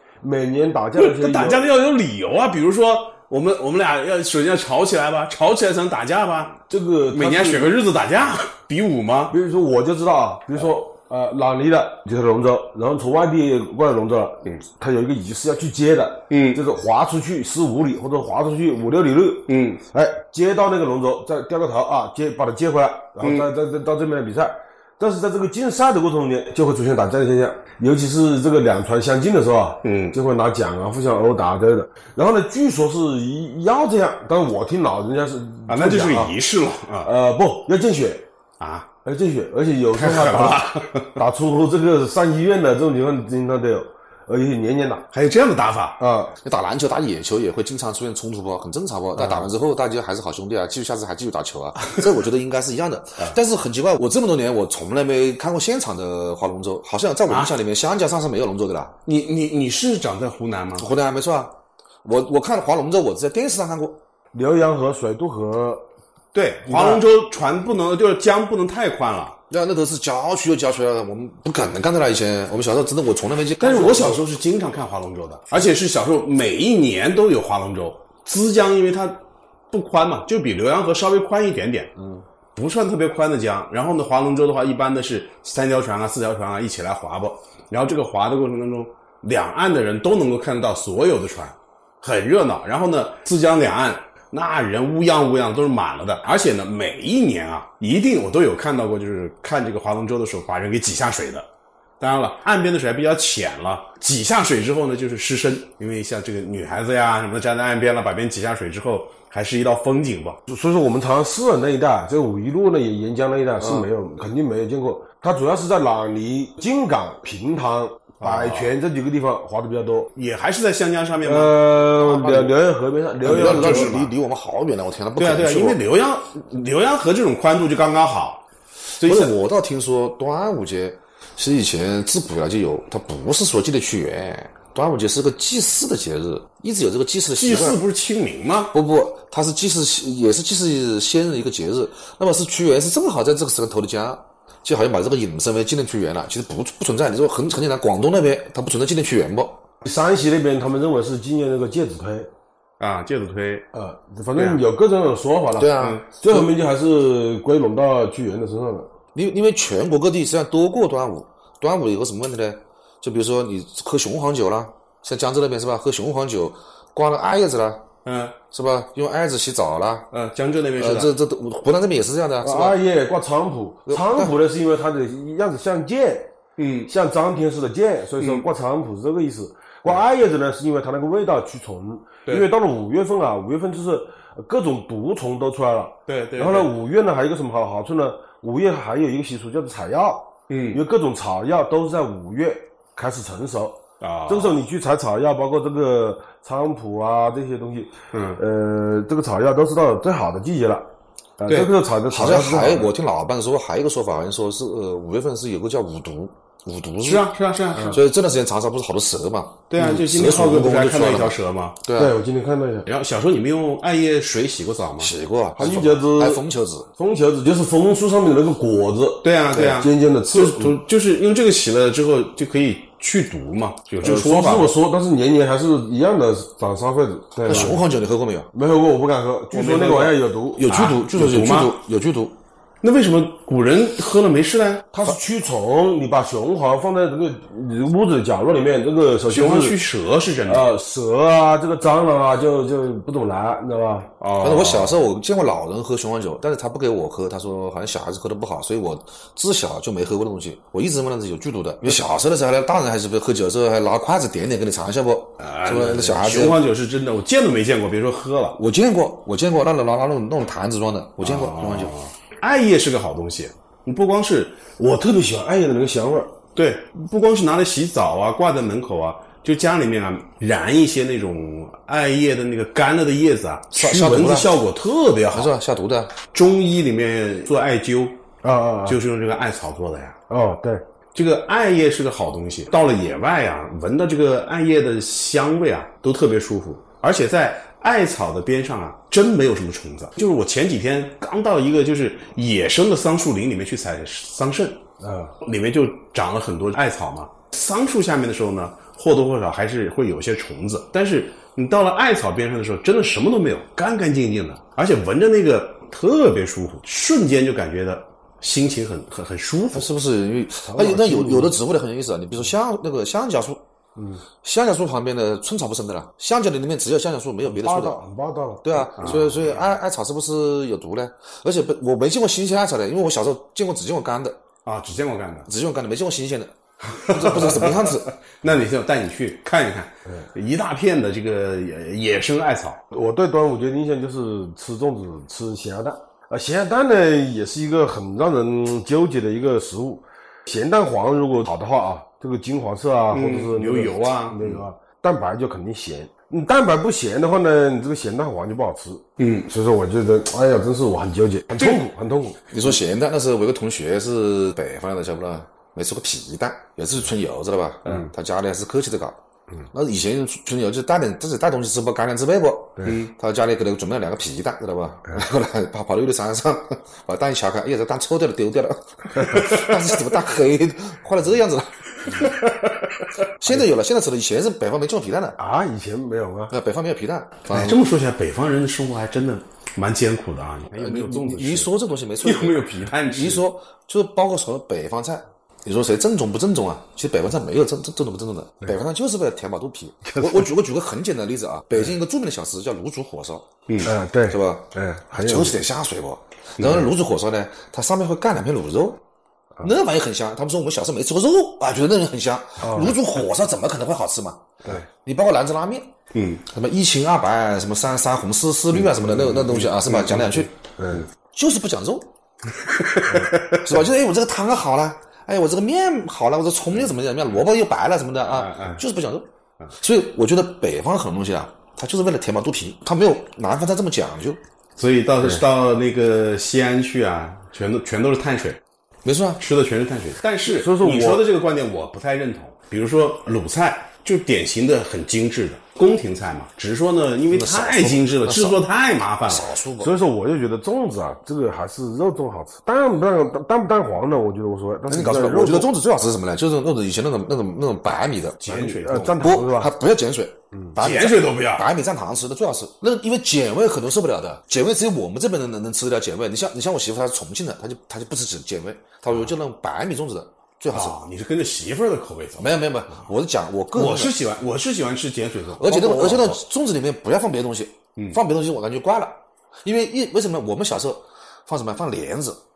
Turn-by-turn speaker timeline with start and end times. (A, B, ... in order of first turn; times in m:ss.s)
0:00.2-0:01.7 A
0:01.0-0:06.6 B
0:06.7-0:07.8 A
0:07.1-0:09.3 B
0:09.3-0:36.4 A
0:16.3-0:16.6 B
0:19.5-0:19.8 B
0:23.2-0:23.4 B
0:29.8-0:30.2 B
0:35.7-0:37.1 B
0:37.0-0:38.2 A
0:38.6-0:38.9 B
0:39.0-0:45.0 A
0:39.9-0:41.2 B
0:45.1-0:46.0 B
0:46.0-0:46.4 A
0:46.4-0:58.9 C
0:57.3-0:57.5 B
0:59.0-1:00.9 B
1:00.8-1:04.0 C
1:04.3-1:05.8 A
1:06.3-1:09.4 B
1:06.6-1:07.0 A
1:09.5-1:14.2 C
1:13.6-1:19.2 B
1:19.7-1:21.9 B
1:22.5-1:41.4 B
1:42.0-1:50.4 B
1:50.5-2:00.1 A
1:53.6-1:53.8 C
1:58.2-1:58.7 B
2:00.1-2:01.6 B
2:01.2-2:04.1 A
2:02.0-2:02.5 C
2:03.2-2:04.1 B
2:03.2-2:05.8 C
2:05.2-2:08.4 B
2:09.0-2:09.3 B
2:09.0-2:17.8 C
2:17.4-2:18.7 B
2:18.7-2:29.6 C
2:29.8-2:32.3 A
2:32.8-2:33.7 B
2:33.7-2:38.9 A
2:34.3-2:34.6 B
2:35.6-2:36.0 C
2:35.8-2:36.1 B
2:39.1-2:47.8 C
2:48.0-2:48.4 B
2:48.5-2:50.1 C
2:50.1-2:51.1 B
2:50.8-2:52.8 C
2:52.4-2:56.3 A
2:53.9-2:54.3 C
2:56.6-2:56.9 B
2:56.9-3:20.8 A
2:58.2-2:58.4 B
3:06.1-3:06.7 B
3:10.5-3:10.8 B
3:14.0-3:14.6 B
3:18.1-3:18.4 B
3:21.4-3:22.9 A
3:22.1-3:32.1 C
3:27.0-3:28.0 B
3:29.7-3:31.8 B
3:29.8-3:30.3 A
3:32.0-3:32.8 A
3:32.8-3:36.0 B
3:35.0-3:36.9 C
3:35.6-3:36.4 A
3:37.0-3:40.8 A
3:39.2-3:44.7 B
3:44.0-3:47.8 A
3:47.4-3:48.5 C
3:48.5-3:50.7 A
3:49.5-3:50.2 B
3:50.5-3:52.4 C
3:50.7-3:51.8 B
3:52.8-3:55.1 B
3:54.9-3:59.8 A
3:59.3-4:00.7 B
4:00.4-4:04.1 A
4:04.2-4:05.0 B
4:04.4-4:16.6 C
4:15.4-4:18.6 B
4:18.6-4:21.9 C
4:21.2-4:24.7 B
4:24.8-4:26.3 A
4:26.5-4:35.6 B
4:33.7-4:34.5 C
4:35.3-4:36.1 C
4:36.3-4:38.2 B
4:38.4-4:39.0 A
4:38.8-4:40.2 B
4:40.3-4:40.8 A
4:41.1-4:54.8 B
4:55.0-4:55.3 A
4:55.4-5:09.9 B
5:09.7-5:13.6 C
5:10.6-5:11.6 A
5:14.0-5:14.2 A
5:14.4-5:18.0 C
5:17.4-5:19.2 A
5:18.6-5:24.4 C
5:19.0-5:19.6 B
5:24.6-5:25.5 B
5:25.4-5:28.1 C
5:26.9-5:32.8 B
5:32.9-5:52.4 A
5:43.1-5:44.7 B
5:49.2-5:49.5 B
5:51.5-5:51.8 B
5:52.5-5:59.2 C
5:59.7-6:12.4 C
6:02.8-6:03.1 B
6:13.4-6:15.4 C
6:15.4-6:16.5 A
6:16.5-6:17.8 C
6:17.5-6:23.4 B
6:20.8-6:33.5 C
6:30.0-6:30.5 A
6:33.8-6:35.6 A
6:34.2-6:39.0 C
6:39.6-6:45.9 C
6:42.6-6:43.0 A
6:46.1-6:46.4 B
6:46.4-6:50.5 C
6:48.7-6:51.0 B
6:50.8-6:51.0 A
6:51.3-6:52.1 C
6:52.6-6:53.8 B
6:53.4-7:04.4 C
6:58.2-6:58.8 B
7:04.8-7:08.6 B
7:09.0-7:09.4 C
7:09.4-7:19.5 B
7:10.4-7:11.2 A
7:17.3-7:18.6 C
7:19.3-7:19.9 C
7:19.8-7:25.7 A
7:24.9-7:28.4 C
7:28.4-7:29.2 B
7:28.5-7:29.7 A
7:29.2-7:41.0 C
7:30.5-7:30.8 A
7:30.8-7:31.6 B
7:40.7-7:43.1 B
7:42.4-7:44.1 C
7:43.7-7:46.4 B
7:45.6-7:52.4 C